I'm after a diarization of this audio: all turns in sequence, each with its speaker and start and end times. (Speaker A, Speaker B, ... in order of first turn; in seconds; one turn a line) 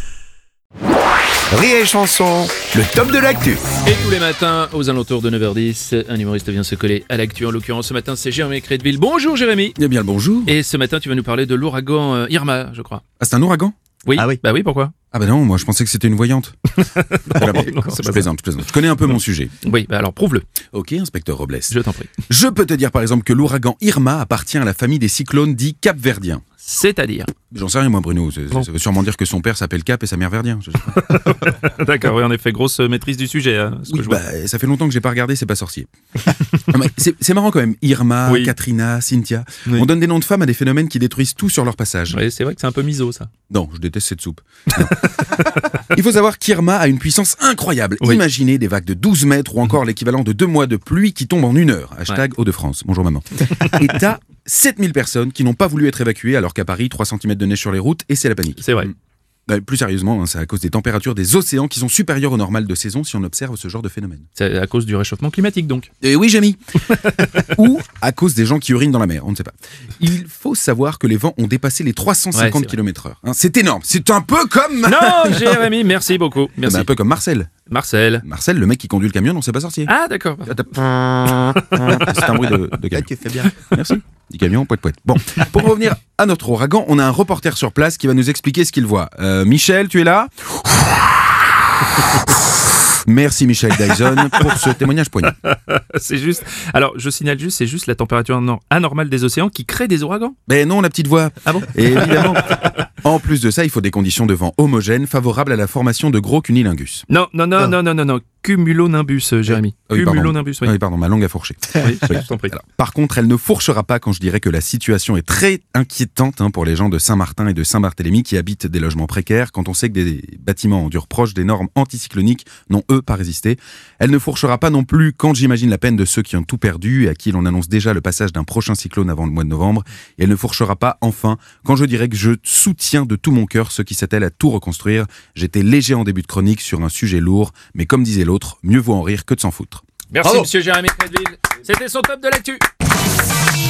Speaker A: 1.5-3.6
Speaker B: 3.8-9.8
Speaker C: 9.8-10.6
Speaker B: 10.5-13.0
Speaker C: 13.2-13.7
Speaker B: 14.0-14.9
Speaker C: 15.1-19.5
Speaker B: 16.8-18.3
Speaker B: 19.6-20.4
Speaker C: 20.7-21.8
Speaker B: 21.7-22.1
Speaker C: 22.3-26.4
Speaker B: 26.6-27.3
Speaker C: 27.5-31.1
Speaker B: 30.9-34.2
Speaker C: 33.9-42.2
Speaker B: 38.3-38.5
Speaker B: 42.1-43.3
Speaker C: 43.5-58.9
Speaker B: 44.8-45.7
Speaker B: 58.6-58.9
Speaker C: 59.5-64.2
Speaker B: 64.4-65.9
Speaker C: 66.0-66.6
Speaker B: 66.9-67.5
Speaker C: 67.4-75.7
Speaker B: 72.3-72.7
Speaker B: 74.8-76.9
Speaker C: 76.6-77.5
Speaker B: 77.7-78.2
Speaker C: 78.2-79.9
Speaker B: 79.9-80.8
Speaker C: 80.5-80.7
Speaker A: 80.9-81.5
Speaker B: 81.3-82.5
Speaker C: 81.6-91.4
Speaker B: 83.2-83.8
Speaker C: 92.0-95.3
Speaker B: 93.9-94.7
Speaker B: 95.2-100.3
Speaker C: 100.5-107.0
Speaker B: 101.5-102.8
Speaker B: 107.1-110.8
Speaker C: 109.8-139.8
Speaker B: 111.7-112.5
Speaker B: 140.1-142.6